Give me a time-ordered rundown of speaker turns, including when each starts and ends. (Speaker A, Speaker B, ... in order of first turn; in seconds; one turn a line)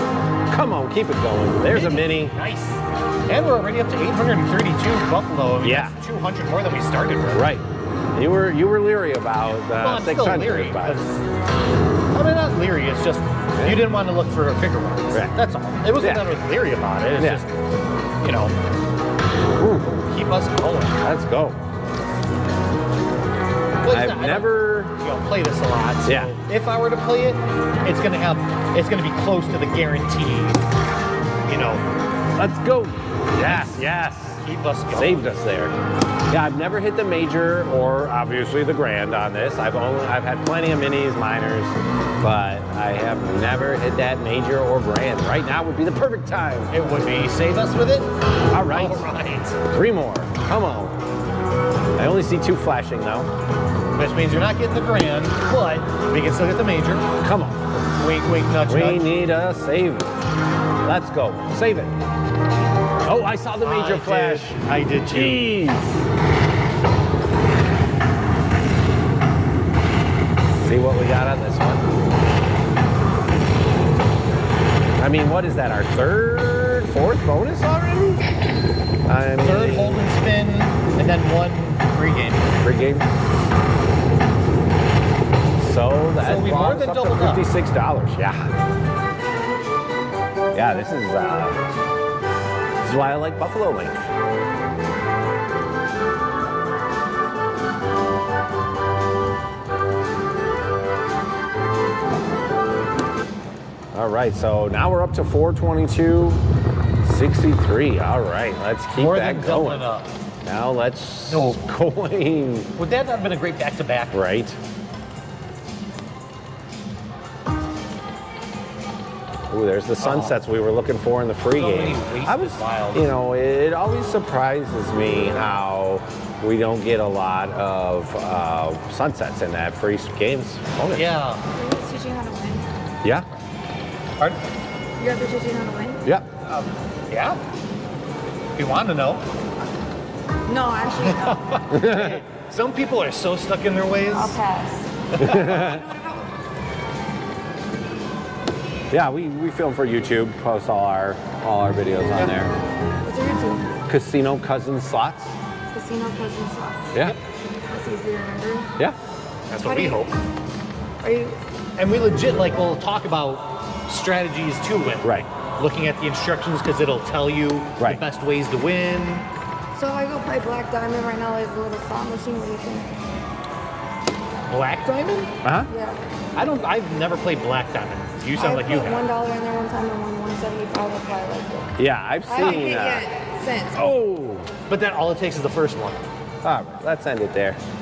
Speaker A: 0.5-2.4
Speaker B: 1.7-7.5
Speaker A: 5.6-6.0
Speaker A: 7.3-11.1
Speaker B: 9.7-11.2
Speaker B: 12.1-17.5
Speaker A: 13.6-13.9
Speaker A: 15.1-15.4
Speaker A: 15.9-16.4
Speaker A: 17.2-17.4
Speaker B: 18.2-18.6
Speaker A: 19.6-20.0
Speaker B: 19.8-21.0
Speaker A: 21.0-21.6
Speaker B: 23.8-30.6
Speaker A: 23.9-25.0
Speaker A: 26.0-26.4
Speaker B: 31.5-31.8
Speaker A: 32.4-35.7
Speaker B: 33.4-33.9
Speaker B: 34.4-35.4
Speaker A: 36.3-46.7
Speaker B: 46.7-49.6
Speaker A: 48.5-49.1
Speaker A: 49.7-51.0
Speaker A: 52.0-53.3
Speaker B: 53.9-57.1
Speaker A: 57.2-57.6
Speaker B: 57.8-59.1
Speaker A: 58.7-60.1
Speaker A: 60.8-61.9
Speaker A: 63.0-66.0
Speaker B: 63.6-65.6
Speaker A: 70.5-71.8
Speaker A: 75.0-78.3
Speaker A: 79.1-80.1
Speaker B: 79.4-82.5
Speaker A: 82.6-83.1
Speaker A: 85.6-88.5
Speaker B: 86.2-87.5
Speaker A: 90.5-91.6
Speaker A: 92.8-94.0
Speaker A: 103.9-106.4
Speaker A: 107.0-109.9
Speaker B: 109.0-110.1
Speaker A: 110.5-112.7
Speaker B: 111.3-111.6
Speaker B: 112.8-114.2
Speaker A: 114.1-114.6
Speaker A: 119.5-131.2
Speaker B: 120.0-120.4
Speaker B: 121.5-123.1
Speaker B: 130.9-131.4
Speaker C: 131.5-132.7
Speaker C: 135.0-136.1
Speaker B: 136.5-137.4
Speaker B: 138.6-139.3
Speaker C: 140.5-141.6
Speaker B: 141.0-144.4
Speaker A: 141.7-142.2
Speaker C: 144.1-144.9
Speaker B: 145.1-145.7
Speaker A: 145.2-145.9
Speaker C: 145.6-146.2
Speaker A: 148.9-152.5
Speaker C: 153.0-153.8
Speaker A: 153.9-155.3
Speaker C: 155.7-157.0
Speaker C: 157.7-158.7
Speaker B: 159.5-160.2
Speaker C: 159.6-160.1
Speaker C: 161.0-161.4
Speaker B: 161.8-169.3
Speaker A: 165.0-165.3
Speaker C: 169.8-172.9
Speaker B: 174.5-175.3
Speaker A: 175.4-175.7
Speaker C: 175.7-176.0
Speaker B: 176.4-179.1
Speaker C: 178.3-181.8
Speaker A: 181.8-183.1
Speaker C: 182.3-183.9
Speaker A: 183.7-184.5
Speaker B: 184.7-186.0
Speaker A: 186.4-187.6